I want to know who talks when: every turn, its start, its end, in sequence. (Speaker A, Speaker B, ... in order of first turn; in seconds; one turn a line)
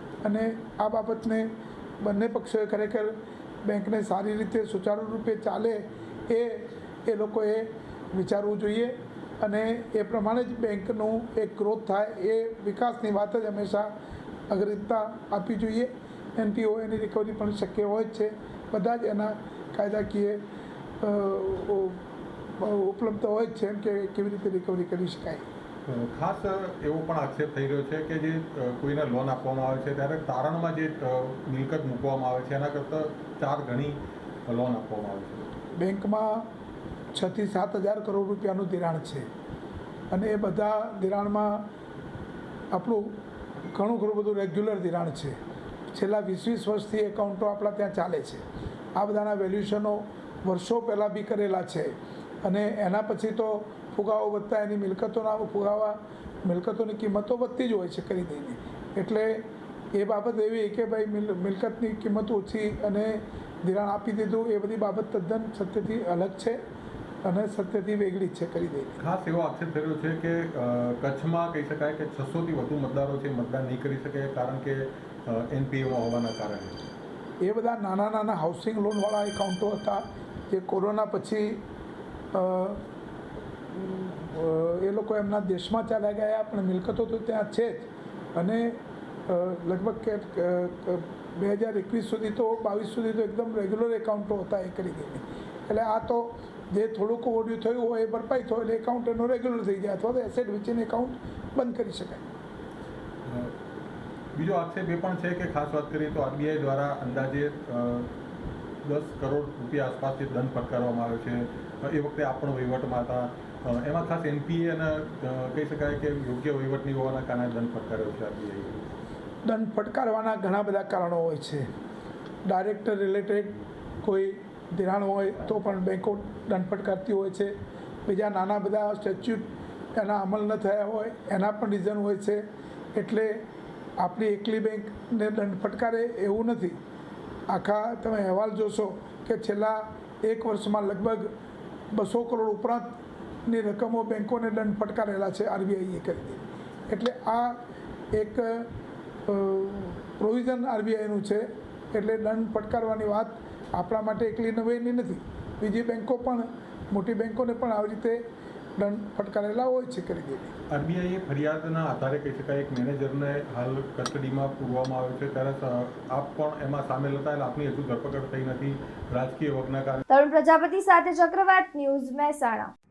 Speaker A: 0.2-13.9
Speaker A: 14.5-20.4
Speaker A: 21.0-22.0
Speaker A: 22.6-25.5
Speaker B: 25.9-35.5
Speaker A: 35.8-36.5
Speaker A: 37.1-39.3
Speaker A: 40.1-41.7
Speaker A: 42.7-43.0
Speaker A: 43.6-45.4
Speaker A: 45.9-48.4
Speaker A: 49.0-66.6
Speaker A: 67.2-69.0
Speaker B: 69.0-76.8
Speaker A: 77.4-81.6
Speaker A: 82.3-82.8
Speaker A: 83.7-102.3
Speaker B: 103.2-103.5
Speaker B: 104.3-108.1
Speaker B: 108.8-118.8
Speaker A: 119.4-121.6
Speaker A: 122.4-127.5
Speaker A: 128.1-132.4
Speaker A: 132.9-133.4
Speaker A: 134.0-136.8
Speaker A: 137.5-141.3
Speaker A: 141.9-147.6
Speaker A: 148.1-148.7
Speaker A: 149.2-158.2
Speaker A: 158.8-160.5
Speaker B: 160.7-170.0
Speaker C: 170.1-172.7